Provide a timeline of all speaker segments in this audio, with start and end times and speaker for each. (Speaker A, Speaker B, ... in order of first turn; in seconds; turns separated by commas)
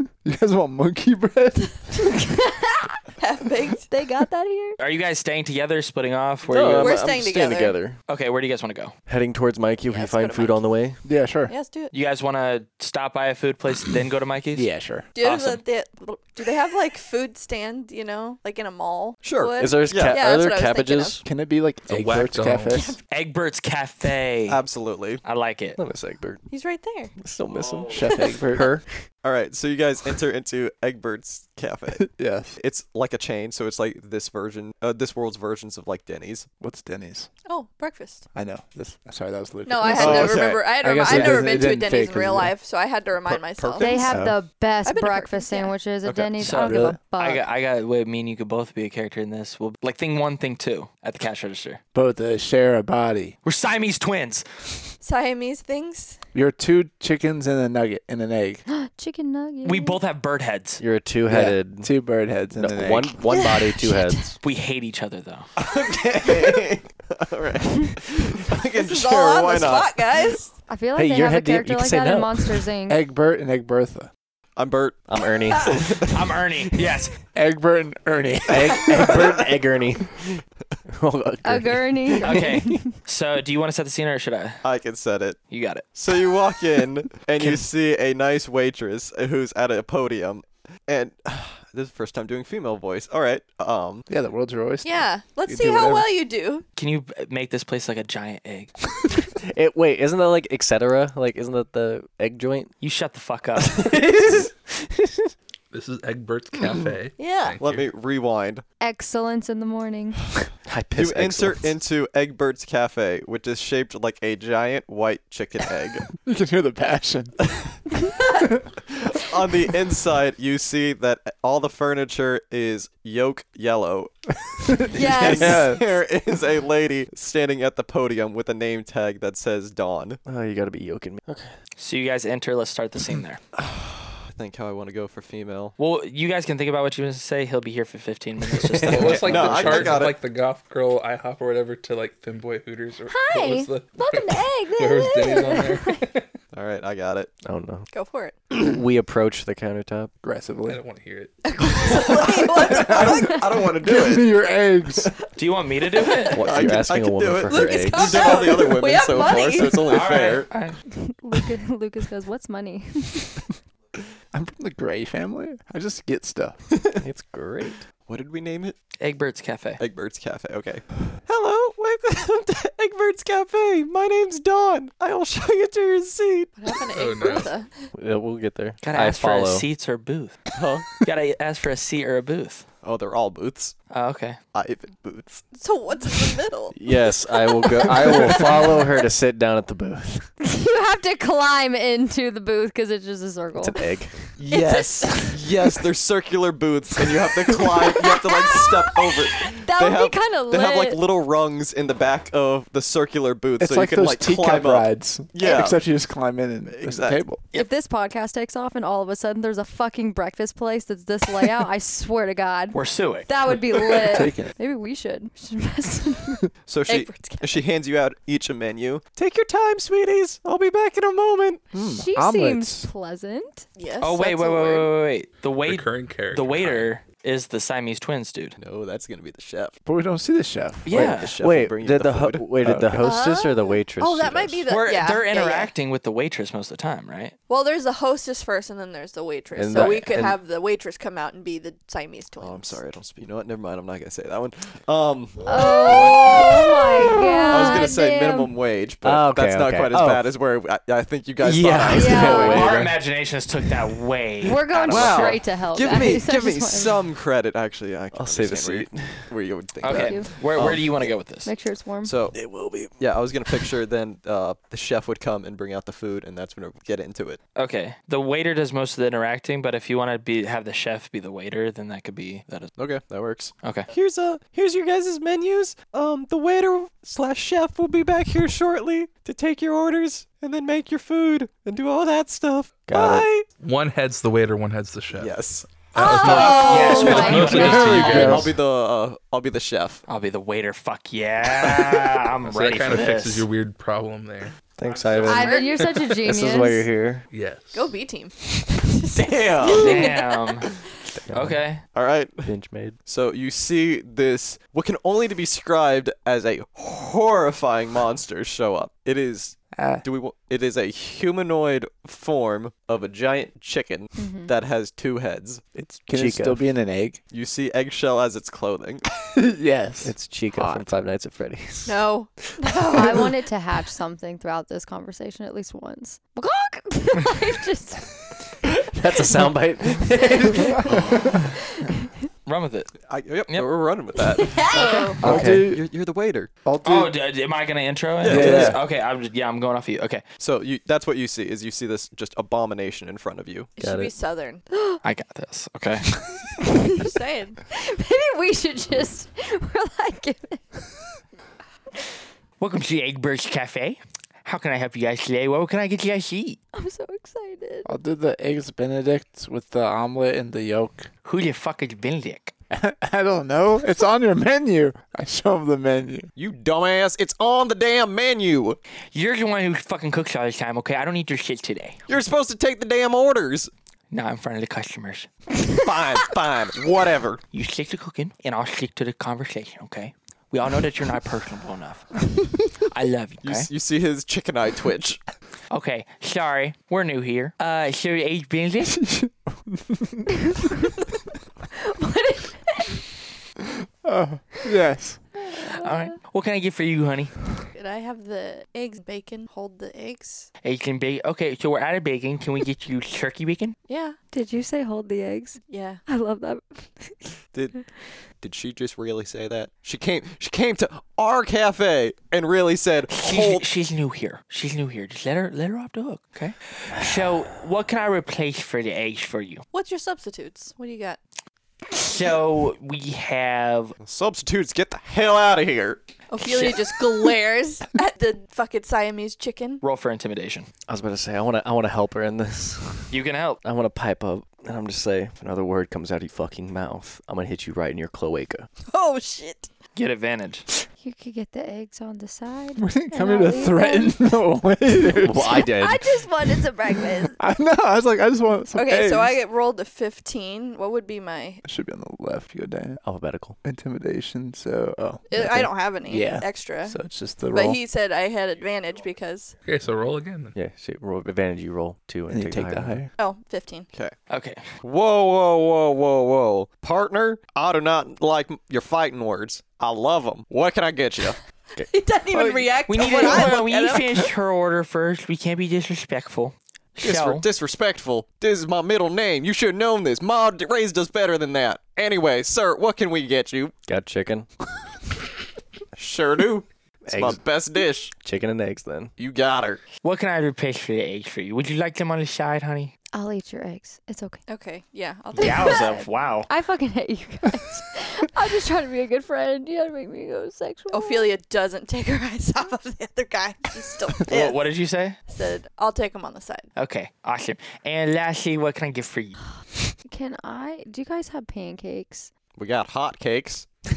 Speaker A: 0.2-2.0, Speaker B: 2.0-2.9, Speaker C: 3.2-3.9, Speaker B: 3.9-4.8, Speaker D: 4.8-7.0, Speaker E: 6.5-8.0, Speaker C: 6.6-7.8, Speaker D: 8.1-8.9, Speaker E: 9.1-11.0, Speaker C: 9.9-10.6, Speaker A: 11.0-11.5, Speaker C: 11.5-11.9, Speaker D: 11.9-15.6, Speaker A: 14.5-15.1, Speaker C: 15.1-21.2, Speaker F: 19.2-20.2, Speaker E: 19.6-21.2, Speaker A: 21.2-23.0, Speaker G: 21.9-22.9, Speaker D: 23.1-24.6, Speaker F: 24.5-25.2, Speaker D: 25.2-25.8, Speaker E: 25.7-26.5, Speaker C: 26.5-27.1, Speaker E: 27.2-29.1, Speaker D: 27.5-28.0, Speaker A: 27.9-28.8, Speaker F: 29.2-36.5, Speaker A: 32.0-32.6, Speaker A: 36.6-37.3, Speaker C: 37.4-38.2, Speaker A: 38.3-42.5, Speaker C: 39.6-44.1, Speaker F: 39.9-41.4, Speaker F: 43.2-44.2, Speaker B: 43.8-47.4, Speaker C: 44.8-45.8, Speaker F: 46.0-46.5, Speaker D: 46.4-51.8, Speaker A: 46.5-47.0, Speaker A: 51.9-53.3, Speaker D: 53.4-54.9, Speaker C: 55.0-56.2, Speaker A: 56.3-58.6, Speaker B: 58.7-60.0, Speaker D: 59.6-60.8, Speaker E: 60.8-62.0, Speaker A: 61.3-63.2, Speaker E: 62.5-64.3, Speaker C: 63.3-64.2, Speaker D: 64.4-65.5, Speaker F: 65.6-70.2, Speaker C: 68.7-70.5, Speaker B: 70.7-73.0, Speaker E: 70.9-72.6, Speaker A: 72.9-74.1, Speaker F: 74.6-76.2, Speaker E: 75.1-76.1, Speaker D: 76.1-77.1, Speaker A: 77.3-79.3, Speaker E: 78.5-82.8, Speaker B: 81.4-82.9, Speaker D: 82.2-84.6, Speaker F: 84.6-85.4, Speaker D: 85.5-85.9, Speaker F: 85.9-94.1, Speaker A: 94.1-96.1, Speaker C: 94.8-96.6, Speaker D: 96.8-98.7, Speaker E: 99.5-102.7, Speaker D: 102.8-103.9, Speaker E: 103.6-105.3, Speaker G: 105.7-107.9, Speaker C: 107.2-107.5, Speaker F: 107.5-108.6, Speaker B: 108.8-110.2, Speaker E: 110.7-111.8, Speaker F: 110.9-116.0, Speaker A: 116.2-117.4, Speaker F: 118.9-124.1, Speaker A: 124.7-126.0, Speaker F: 124.7-130.2, Speaker B: 124.9-125.6, Speaker E: 125.4-125.8, Speaker E: 130.2-131.6, Speaker D: 131.8-133.4, Speaker F: 133.6-135.8, Speaker D: 135.8-140.0, Speaker E: 138.6-139.4, Speaker F: 138.6-140.2, Speaker G: 138.9-146.3, Speaker B: 143.1-146.1, Speaker F: 146.5-147.3, Speaker E: 147.4-147.9, Speaker C: 147.9-148.5, Speaker E: 148.5-150.1, Speaker A: 150.2-150.8, Speaker G: 150.7-151.4, Speaker C: 151.4-153.4, Speaker F: 151.8-154.4, Speaker A: 152.6-155.1, Speaker D: 155.4-156.3, Speaker C: 156.0-156.3, Speaker E: 156.3-158.4, Speaker F: 156.3-160.5, Speaker C: 157.5-159.9, Speaker D: 159.8-160.8, Speaker B: 160.9-163.4, Speaker A: 164.3-166.6, Speaker E: 167.0-167.8, Speaker F: 168.1-168.8, Speaker D: 169.0-169.8, Speaker F: 169.8-176.5, Speaker C: 176.6-177.9, Speaker G: 176.9-177.5, Speaker E: 177.9-179.7, Speaker D: 178.8-180.4, Speaker F: 180.5-180.9, Speaker D: 181.0-182.7, Speaker F: 182.8-183.7, Speaker D: 183.9-184.4, Speaker F: 184.5-185.5, Speaker C: 185.5-186.8, Speaker E: 186.7-190.3, Speaker B: 190.4-193.9, Speaker E: 193.6-194.3, Speaker F: 194.4-205.8, Speaker B: 194.5-195.3, Speaker B: 197.9-201.0, Speaker A: 203.6-207.4, Speaker F: 206.7-207.2, Speaker B: 207.5-216.5, Speaker D: 212.7-213.3, Speaker A: 214.1-214.5, Speaker F: 216.7-221.6, Speaker C: 216.9-217.7, Speaker A: 221.7-222.9, Speaker B: 222.0-223.7, Speaker C: 223.8-224.9, Speaker D: 224.0-228.6, Speaker G: 225.6-226.9, Speaker F: 228.6-229.8, Speaker A: 229.8-231.1, Speaker D: 230.8-231.3, Speaker F: 230.9-232.7, Speaker E: 230.9-234.7, Speaker A: 232.6-233.1, Speaker C: 233.0-235.7, Speaker D: 234.7-237.3, Speaker C: 237.5-242.8, Speaker E: 239.5-240.4, Speaker F: 239.8-240.1, Speaker D: 239.8-240.2, Speaker F: 242.4-246.9, Speaker B: 245.4-248.5, Speaker C: 247.2-247.9, Speaker F: 247.5-252.8, Speaker E: 249.0-250.3, Speaker E: 251.4-253.0, Speaker B: 251.9-252.7, Speaker D: 252.3-256.0, Speaker B: 254.4-257.0, Speaker F: 254.9-261.1, Speaker E: 258.1-259.4, Speaker D: 259.8-261.5, Speaker B: 259.8-260.3, Speaker B: 261.4-262.1, Speaker F: 262.0-267.4, Speaker E: 262.3-263.7, Speaker D: 267.6-272.7, Speaker F: 272.8-283.5, Speaker D: 273.6-273.9, Speaker E: 282.9-283.3, Speaker G: 283.6-288.5, Speaker F: 285.1-290.0, Speaker B: 285.9-288.3, Speaker D: 286.1-288.5, Speaker E: 286.8-288.5, Speaker D: 290.1-293.5, Speaker G: 292.4-294.6, Speaker E: 294.8-297.3, Speaker C: 295.2-295.9, Speaker B: 295.2-296.9, Speaker G: 297.3-298.0, Speaker C: 297.7-300.6, Speaker F: 299.1-300.1, Speaker D: 299.7-300.7, Speaker E: 301.2-301.8, Speaker D: 301.3-301.8, Speaker F: 301.8-302.5, Speaker E: 302.4-303.0, Speaker F: 303.0-315.6, Speaker A: 309.7-310.0, Speaker B: 314.1-314.5, Speaker A: 315.7-317.2, Speaker E: 316.1-316.6, Speaker F: 317.3-319.0, Speaker A: 319.4-320.9, Speaker E: 320.0-322.5, Speaker C: 321.9-323.3, Speaker B: 322.9-328.4, Speaker E: 328.9-330.8, Speaker B: 330.4-330.7, Speaker D: 332.4-333.7, Speaker F: 333.0-336.5, Speaker B: 334.4-335.1, Speaker C: 334.6-335.2, Speaker E: 335.2-335.7, Speaker A: 335.2-335.9, Speaker A: 336.6-337.1, Speaker D: 336.8-340.2, Speaker F: 338.2-338.8, Speaker A: 338.2-338.8, Speaker F: 340.4-343.7, Speaker C: 343.8-344.6, Speaker E: 343.8-344.1, Speaker B: 344.7-345.0, Speaker D: 345.0-346.4, Speaker B: 346.6-347.1, Speaker C: 347.0-347.6, Speaker B: 347.7-350.9, Speaker D: 352.6-356.6, Speaker B: 356.7-357.9, Speaker A: 357.8-361.1, Speaker D: 361.2-362.5, Speaker A: 362.7-366.3, Speaker F: 366.3-368.8, Speaker D: 369.1-372.0, Speaker F: 372.1-373.7, Speaker D: 374.1-375.3, Speaker F: 375.7-377.4, Speaker D: 377.5-383.7, Speaker F: 383.4-385.2, Speaker D: 385.7-389.0, Speaker A: 388.8-390.6, Speaker B: 391.9-393.0, Speaker A: 394.0-395.2, Speaker B: 395.4-396.1, Speaker D: 395.7-397.5, Speaker C: 397.7-400.5, Speaker D: 400.6-403.8, Speaker C: 403.9-404.2, Speaker B: 404.3-407.3, Speaker C: 405.7-406.0, Speaker F: 407.5-407.8, Speaker F: 408.4-413.6, Speaker D: 413.2-419.6, Speaker C: 419.7-421.2, Speaker D: 421.9-424.0, Speaker F: 424.0-427.0, Speaker C: 426.3-429.8, Speaker D: 426.4-426.7, Speaker D: 429.8-430.7, Speaker E: 430.9-438.7, Speaker D: 433.1-433.6, Speaker C: 438.9-439.7, Speaker D: 439.9-440.6, Speaker B: 441.0-444.2, Speaker A: 442.8-445.6, Speaker E: 445.1-446.2, Speaker B: 445.5-447.4, Speaker A: 447.4-449.4, Speaker C: 448.7-451.6, Speaker A: 451.6-453.0, Speaker E: 453.0-453.6, Speaker A: 453.6-457.8, Speaker C: 455.3-457.0, Speaker C: 457.5-459.5, Speaker G: 459.6-460.6, Speaker E: 460.5-463.1, Speaker A: 462.3-463.1, Speaker C: 463.2-463.9, Speaker D: 464.3-464.7, Speaker F: 464.8-471.4, Speaker C: 471.8-474.3, Speaker A: 472.3-472.8, Speaker D: 472.9-477.4, Speaker F: 477.0-483.8, Speaker E: 483.9-484.5, Speaker F: 485.9-488.1, Speaker E: 487.1-487.5, Speaker E: 488.1-489.1, Speaker F: 489.2-489.8, Speaker D: 490.0-492.9, Speaker B: 493.1-494.4, Speaker C: 494.5-496.0, Speaker D: 495.4-496.5, Speaker B: 495.4-501.3, Speaker C: 500.9-504.6, Speaker D: 504.2-505.2, Speaker C: 505.3-506.7, Speaker D: 506.8-509.4, Speaker B: 510.0-512.3, Speaker F: 512.5-513.7